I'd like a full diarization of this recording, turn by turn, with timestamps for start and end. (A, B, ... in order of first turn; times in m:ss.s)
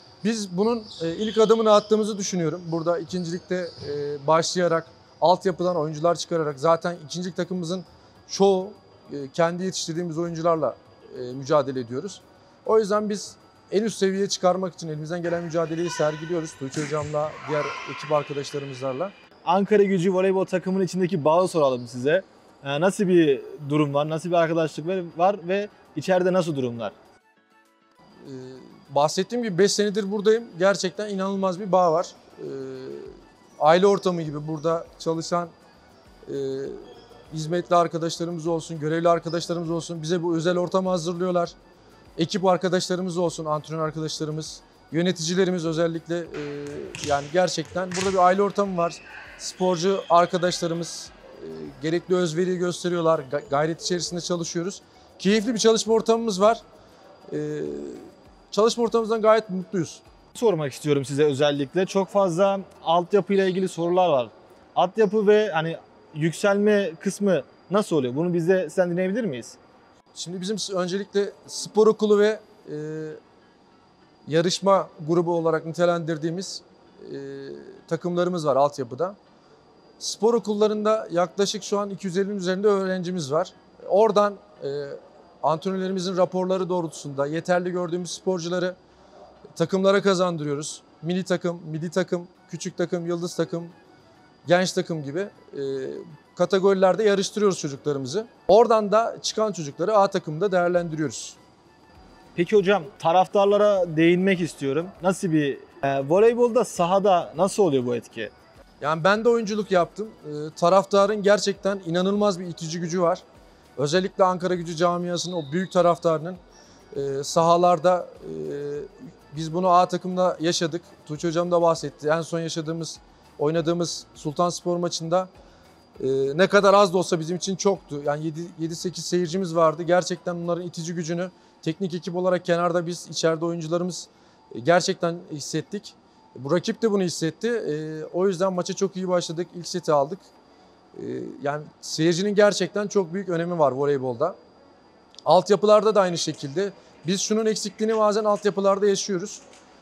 0:00.2-0:19.1 A
0:19.4-0:27.0 B
0:28.2-0:35.5 A
0:36.3-0:41.6 A
0:42.2-0:56.6 A
0:57.3-1:00.0 A
1:00.3-1:09.6 B
1:10.2-1:13.2 A
1:14.3-1:19.2 A
1:20.0-1:28.8 A
1:29.6-1:33.8 A
1:34.4-1:41.4 A
1:42.4-1:48.3 B
1:48.8-1:53.2 A
1:53.8-1:56.4 A
1:56.9-2:05.3 A
2:06.0-2:20.3 A
2:21.0-2:24.4 A
2:25.2-2:29.4 A